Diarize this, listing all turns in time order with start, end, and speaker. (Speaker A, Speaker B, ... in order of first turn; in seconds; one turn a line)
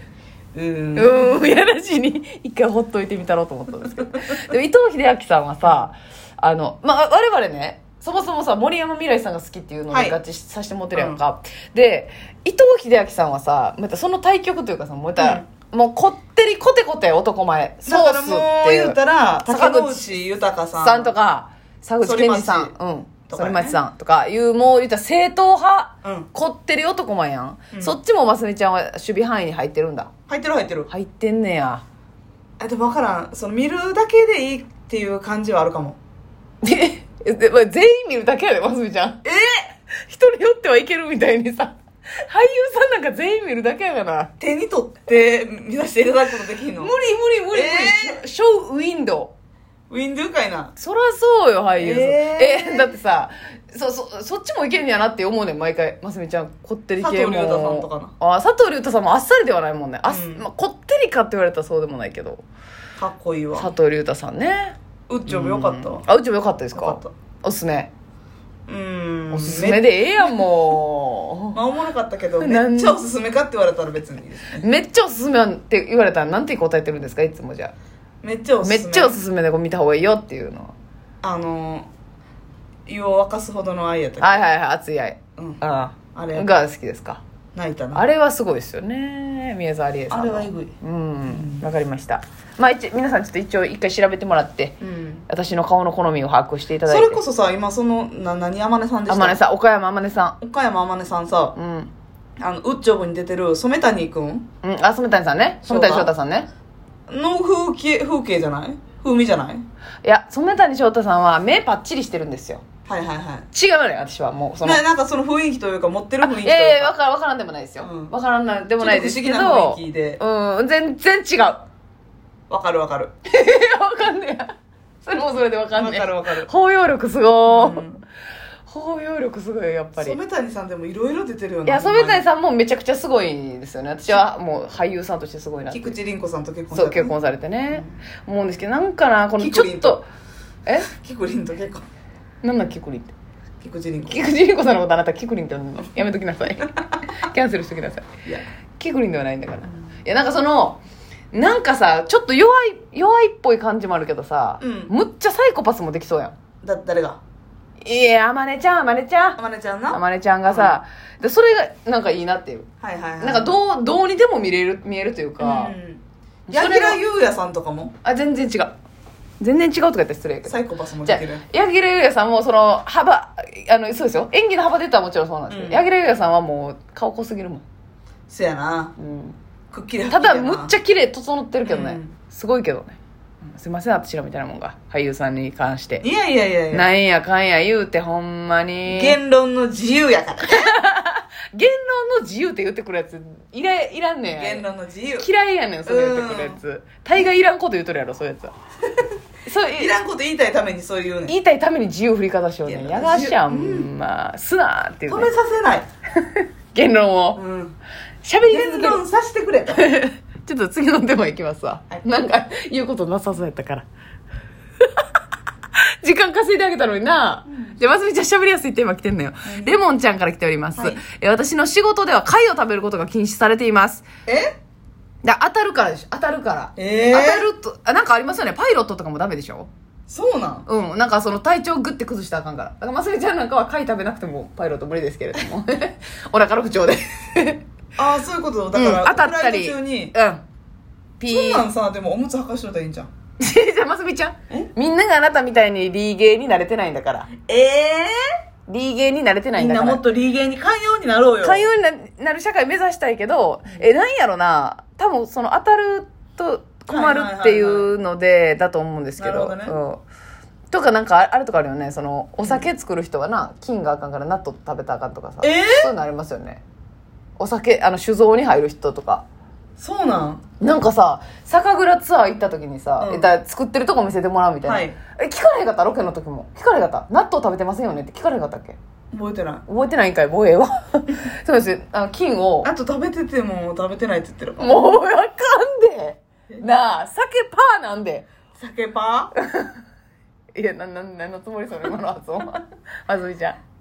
Speaker A: 0.5-1.4
Speaker B: 0.9-20.1
Speaker A: 9.9-10.2
Speaker A: 10.9-11.2
Speaker A: 15.2-15.4
Speaker A: 17.8-21.1
Speaker B: 20.8-30.1
Speaker A: 22.0-22.7
Speaker A: 23.3-23.8
Speaker A: 26.0-26.3
Speaker A: 30.3-30.9
Speaker B: 30.9-31.8
Speaker A: 32.6-36.0
Speaker B: 36.6-39.2
Speaker A: 39.2-39.7
Speaker B: 40.1-44.3
Speaker A: 44.4-46.9
Speaker B: 46.8-49.3
Speaker A: 47.5-48.2
Speaker A: 49.9-50.7
Speaker B: 50.8-62.4
Speaker A: 51.8-53.0
Speaker A: 57.0-58.1
Speaker A: 60.1-60.5
Speaker A: 63.0-63.7
Speaker B: 63.6-64.8
Speaker A: 65.1-66.1
Speaker B: 65.3-67.9
Speaker A: 66.7-67.1
Speaker A: 68.7-69.9
Speaker B: 69.3-71.6
Speaker A: 71.5-74.6
Speaker B: 72.4-73.0
Speaker B: 74.6-77.7
Speaker A: 78.2-79.2
Speaker B: 78.6-80.7
Speaker A: 81.2-81.9
Speaker A: 82.8-84.4
Speaker B: 84.2-87.2
Speaker A: 85.4-86.5
Speaker A: 87.5-88.1
Speaker B: 87.9-94.8
Speaker A: 90.1-90.7
Speaker A: 91.3-91.6
Speaker A: 94.8-95.2
Speaker B: 95.3-97.2
Speaker A: 96.8-99.4
Speaker B: 99.1-100.4
Speaker A: 100.4-101.6
Speaker B: 101.5-101.9
Speaker A: 102.4-104.5
Speaker B: 104.6-106.5
Speaker A: 105.6-106.1
Speaker A: 107.1-109.6
Speaker B: 110.0-112.6
Speaker A: 112.9-113.5
Speaker B: 113.5-114.8
Speaker A: 114.6-116.9
Speaker B: 116.2-121.7
Speaker A: 117.8-118.1
Speaker A: 118.8-120.2
Speaker A: 122.5-123.1
Speaker B: 123.3-124.5
Speaker B: 125.0-127.8
Speaker A: 125.7-126.5
Speaker A: 127.5-128.0
Speaker B: 128.7-130.2
Speaker A: 130.0-132.2
Speaker B: 131.7-135.9
Speaker A: 135.7-137.1
Speaker B: 136.7-140.1
Speaker A: 139.4-140.0
Speaker A: 140.8-141.8
Speaker B: 142.4-143.1
Speaker A: 143.6-144.3
Speaker B: 144.1-148.1
Speaker B: 148.8-150.8
Speaker B: 151.3-156.3
Speaker A: 154.6-154.9
Speaker A: 156.6-157.2
Speaker B: 157.8-159.4
Speaker A: 159.4-160.8
Speaker B: 159.9-162.7
Speaker A: 162.8-163.5
Speaker B: 163.2-165.7
Speaker A: 165.4-167.9
Speaker B: 166.5-167.0
Speaker B: 168.0-168.8
Speaker B: 169.4-177.6
Speaker A: 170.4-171.4
Speaker A: 175.5-175.8
Speaker A: 178.3-178.9
Speaker B: 179.0-179.3
Speaker A: 179.7-180.7
Speaker B: 180.1-186.0
Speaker A: 181.7-182.1
Speaker A: 186.0-186.9
Speaker B: 186.7-189.2
Speaker A: 188.9-190.8
Speaker B: 190.5-194.6
Speaker A: 194.3-195.3
Speaker B: 195.2-198.5
Speaker A: 195.8-196.6
Speaker B: 199.4-199.9
Speaker A: 199.8-201.3
Speaker B: 201.3-205.3
Speaker A: 202.7-203.9
Speaker A: 205.1-205.9
Speaker B: 206.2-207.4
Speaker A: 207.3-207.8
Speaker B: 208.2-209.0
Speaker A: 208.4-209.8
Speaker B: 209.7-213.8
Speaker B: 216.0-224.0
Speaker A: 217.5-217.8
Speaker A: 219.5-219.8
Speaker A: 224.3-224.5
Speaker B: 225.2-229.7
Speaker A: 226.8-227.5
Speaker A: 230.1-230.7
Speaker B: 230.7-237.6
Speaker A: 238.0-240.1
Speaker B: 238.7-240.4
Speaker B: 241.2-241.7
Speaker A: 241.3-243.1
Speaker B: 243.4-247.3
Speaker A: 247.5-248.2
Speaker B: 248.7-250.0
Speaker A: 249.6-251.6
Speaker B: 251.4-260.0
Speaker A: 256.9-257.9
Speaker A: 259.2-259.8
Speaker B: 260.7-266.6
Speaker A: 265.4-265.9
Speaker B: 267.4-269.2
Speaker A: 269.8-270.4
Speaker B: 270.6-278.8
Speaker A: 273.0-273.3
Speaker A: 274.6-275.0
Speaker A: 279.1-279.6
Speaker B: 279.7-282.7
Speaker A: 282.6-284.8
Speaker B: 284.6-288.3
Speaker A: 288.5-289.3
Speaker B: 289.4-289.8
Speaker B: 290.5-293.6